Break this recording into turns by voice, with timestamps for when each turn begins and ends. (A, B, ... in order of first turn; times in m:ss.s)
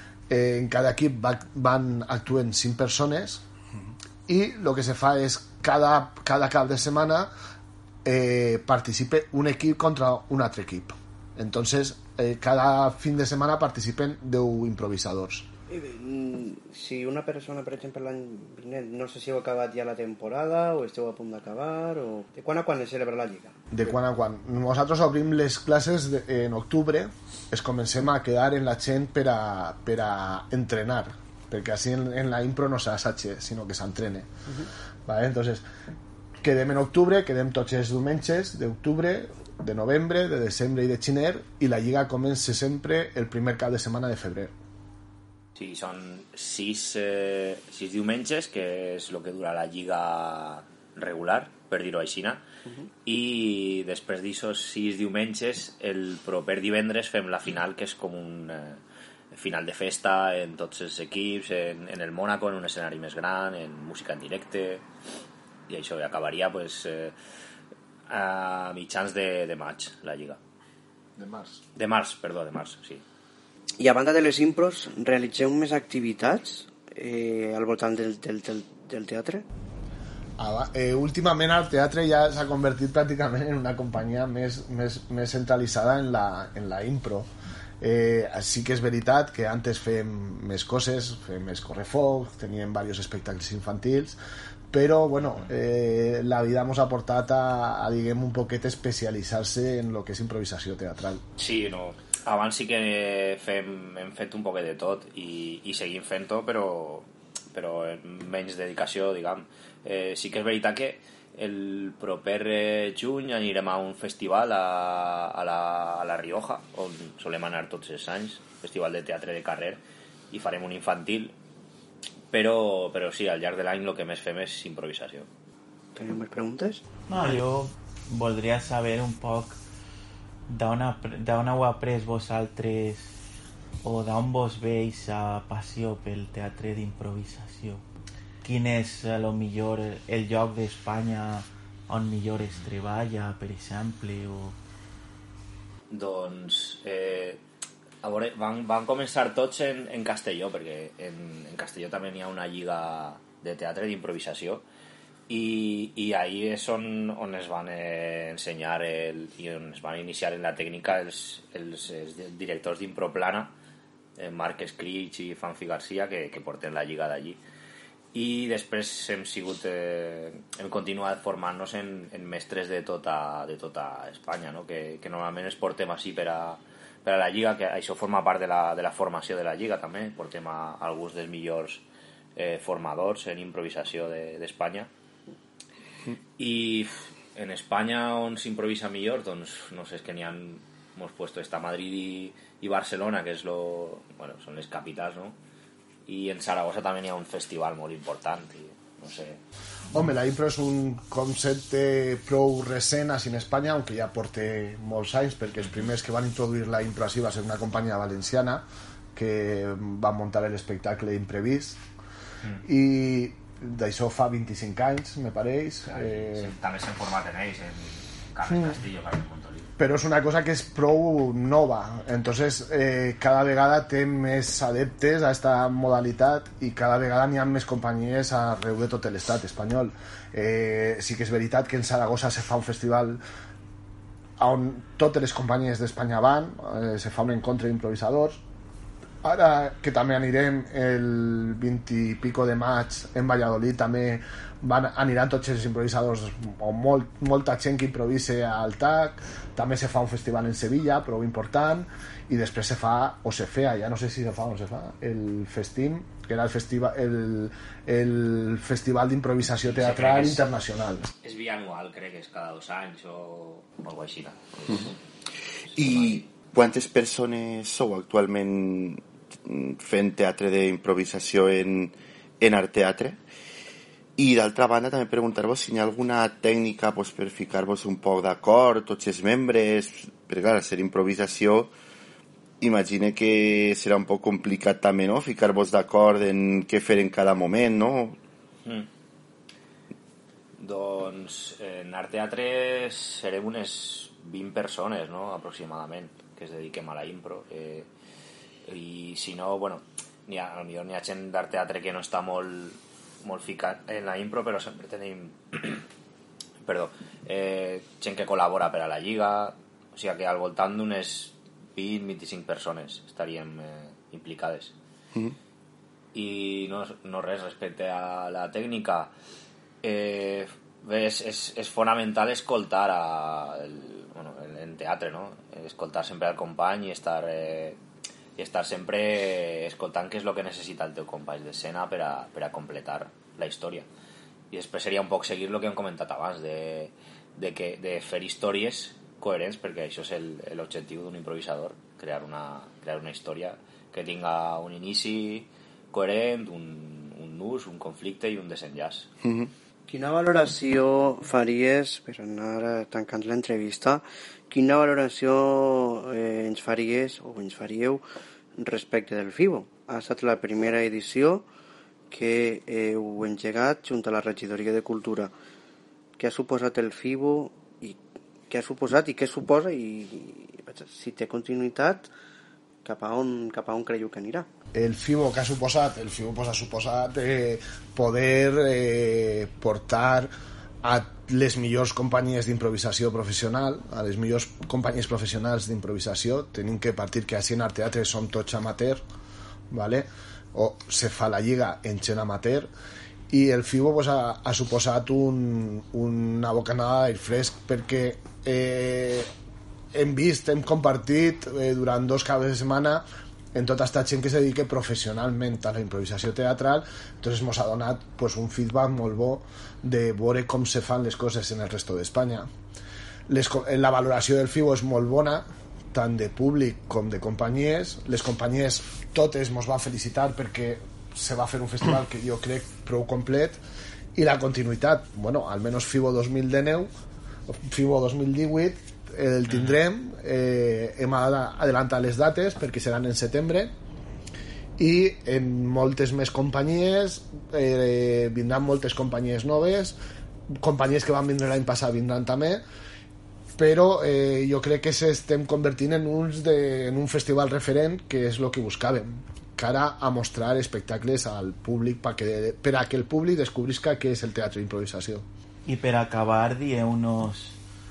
0:00.3-0:03.4 A
0:04.3-0:07.3 A
0:08.0-0:15.5 A
0:15.7-0:23.6 B
0:23.7-0:34.3 A
0:35.1-0:35.6 A
0:36.4-0:44.5 A
0:45.6-0:52.4 C
0:53.0-0:58.8 C
0:59.3-1:04.8 C
1:05.7-1:07.1 C
1:08.1-1:10.4 C
1:11.2-1:11.6 A
1:11.8-1:13.0 C
1:13.8-1:19.4 B
1:20.4-1:34.2 A
1:34.7-1:41.2 A
1:41.4-2:01.4 C
2:02.3-2:05.3 C
2:06.0-2:06.8 B
2:07.1-2:09.6 D
2:10.5-2:13.2 D
2:13.8-2:17.8 D
2:18.4-2:24.6 D
2:25.9-2:27.4 C
2:28.0-2:34.6 C
2:35.3-2:43.5 C
2:44.2-2:47.4 C
2:48.1-3:01.8 C
3:02.4-3:04.9 C
3:06.4-3:15.4 C
3:16.1-3:19.4 C
3:19.9-3:31.8 A
3:32.6-3:36.5 A
3:36.0-3:39.7 C
3:39.8-3:53.2 A
3:54.4-3:58.4 A
3:59.2-4:21.1 A
4:19.8-4:20.4 C
4:21.2-4:25.0 C
4:25.7-4:26.2 C
4:25.8-4:33.2 E
4:34.2-4:41.7 E
4:42.6-4:48.2 E
4:50.6-4:57.9 C
4:58.7-5:05.8 C
5:06.6-5:14.7 C
5:16.1-5:19.1 C
5:19.8-5:27.8 C
5:28.4-5:33.9 C
5:34.5-5:49.1 C
5:49.9-5:58.0 B
5:58.6-6:01.5 B
6:02.1-6:05.3 B
6:06.2-6:12.1 B
6:12.8-6:14.5 B
6:14.7-6:20.3 A
6:20.8-6:29.0 A
6:29.7-6:32.7 A
6:33.3-6:39.3 A
6:39.9-6:43.0 A
6:43.5-6:52.5 A
6:53.3-7:03.6 A
7:04.2-7:06.9 A
7:07.5-7:13.7 A
7:14.8-7:20.0 A
7:20.6-7:22.6 A
7:23.6-7:35.3 A
7:35.7-7:37.6 D